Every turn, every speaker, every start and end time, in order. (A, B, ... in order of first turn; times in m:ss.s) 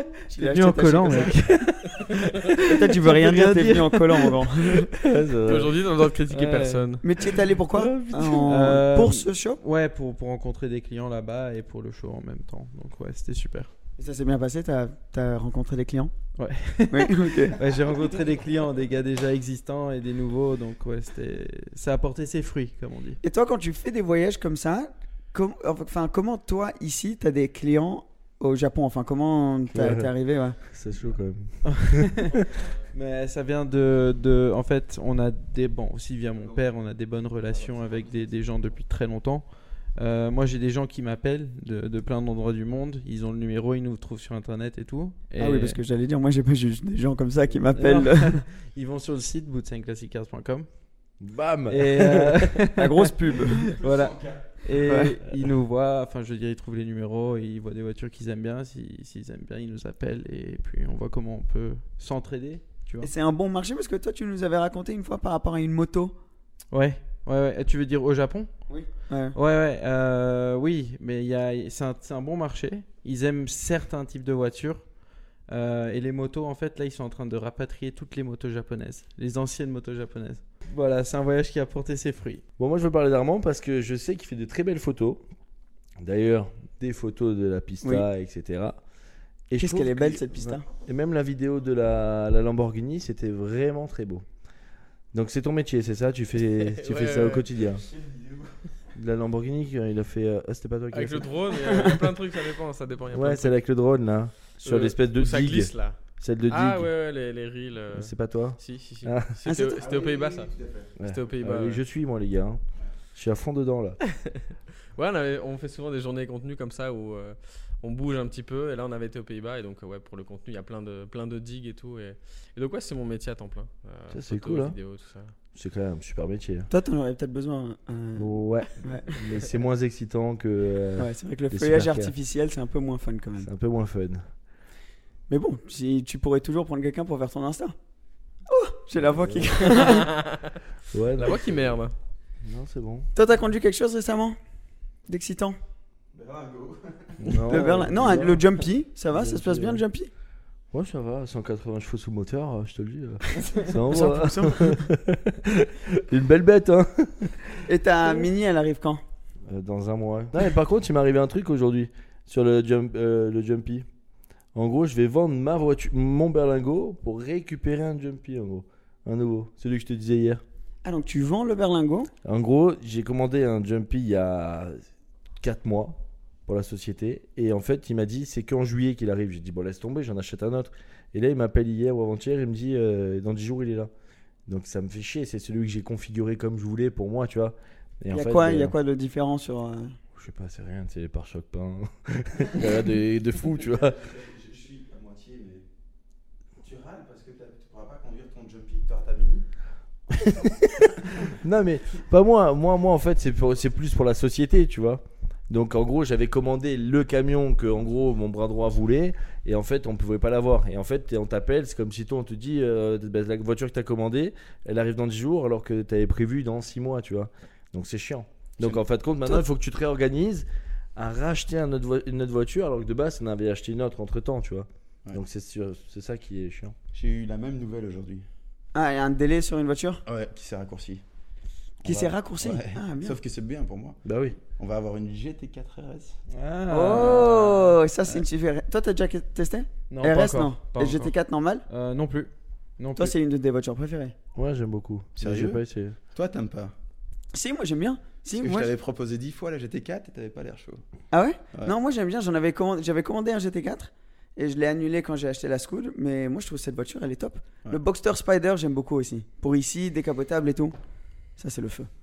0:00.3-0:01.5 A
0:00.4-0:02.0 B
0:02.6-0:04.4 B
0:02.6-0:04.9 A
0:05.0-0:05.8 C
0:05.4-0:07.2 D
0:06.3-0:06.9 B
0:07.0-0:09.6 A
0:07.7-0:08.7 C
0:08.5-0:13.7 B
0:14.0-0:16.1 A
0:16.4-0:23.2 B
0:16.9-0:17.6 A
0:23.2-0:30.6 A
0:29.7-0:30.1 C
0:30.7-0:32.4 C
0:31.7-0:32.3 B
0:32.9-0:45.8 B
0:45.4-0:48.4 A
0:47.7-0:50.7 B
0:51.2-0:52.5 C
0:51.7-0:52.8 B
0:52.8-0:53.7 A
0:53.5-1:03.1 B
0:53.7-0:54.4 E
0:54.8-0:55.2 A
1:03.0-1:06.2 A
1:06.7-1:08.5 B
1:08.7-1:09.4 A
1:09.3-1:14.8 B
1:15.5-1:22.4 B
1:22.6-1:25.2 C
1:26.0-1:28.8 C
1:29.5-1:34.2 C
1:29.6-1:30.7 A
1:35.1-1:37.8 C
1:36.6-1:37.5 D
1:37.9-1:38.4 E
1:38.9-1:42.0 C
1:40.9-1:43.6 D
1:43.1-1:46.9 C
1:44.6-1:51.8 D
1:47.9-1:49.3 C
1:49.4-1:49.8 A
1:49.8-1:50.9 E
1:51.0-1:52.6 C
1:53.2-1:54.0 C
1:54.2-1:54.4 D
1:55.0-2:05.3 D
2:04.1-2:04.8 C
2:05.5-2:06.7 C
2:06.7-2:09.2 A
2:08.2-2:12.1 C
2:11.0-2:13.5 A
2:13.4-2:14.3 C
2:15.3-2:17.8 A
2:18.5-2:20.1 A
2:19.0-2:19.8 C
2:19.7-2:20.5 D
2:20.9-2:21.8 C
2:21.1-2:21.9 D
2:22.4-2:23.1 C
2:23.2-2:24.4 A
2:25.1-2:25.6 A
2:26.1-2:27.2 E
2:27.2-2:28.4 C
2:27.5-2:30.1 A
2:29.1-2:29.8 C
2:30.7-2:37.4 C
2:33.9-2:34.9 A
2:37.6-2:39.0 A
2:39.5-2:43.9 C
2:44.6-2:50.4 C
2:50.8-2:52.1 A
2:52.2-2:54.8 C
2:55.4-3:03.9 C
3:04.5-3:08.7 C
3:08.1-3:10.0 A
3:10.2-3:14.0 C
3:13.6-3:15.6 E
3:16.6-3:19.4 E
3:20.2-3:46.8 C
3:46.9-3:48.2 E
3:48.7-3:50.0 A
3:50.1-3:51.0 E
3:51.8-3:56.2 E
3:51.8-3:53.2 A
3:54.0-3:54.4 C
3:56.3-3:57.7 B
3:56.7-4:01.6 A
3:56.9-3:57.4 C
3:59.9-4:01.1 B
4:01.7-4:03.2 B
4:03.0-4:04.1 A
4:04.4-4:06.0 C
4:05.2-4:06.7 E
4:07.3-4:08.7 A
4:08.4-4:10.8 E
4:11.1-4:20.8 A
4:21.4-4:21.9 A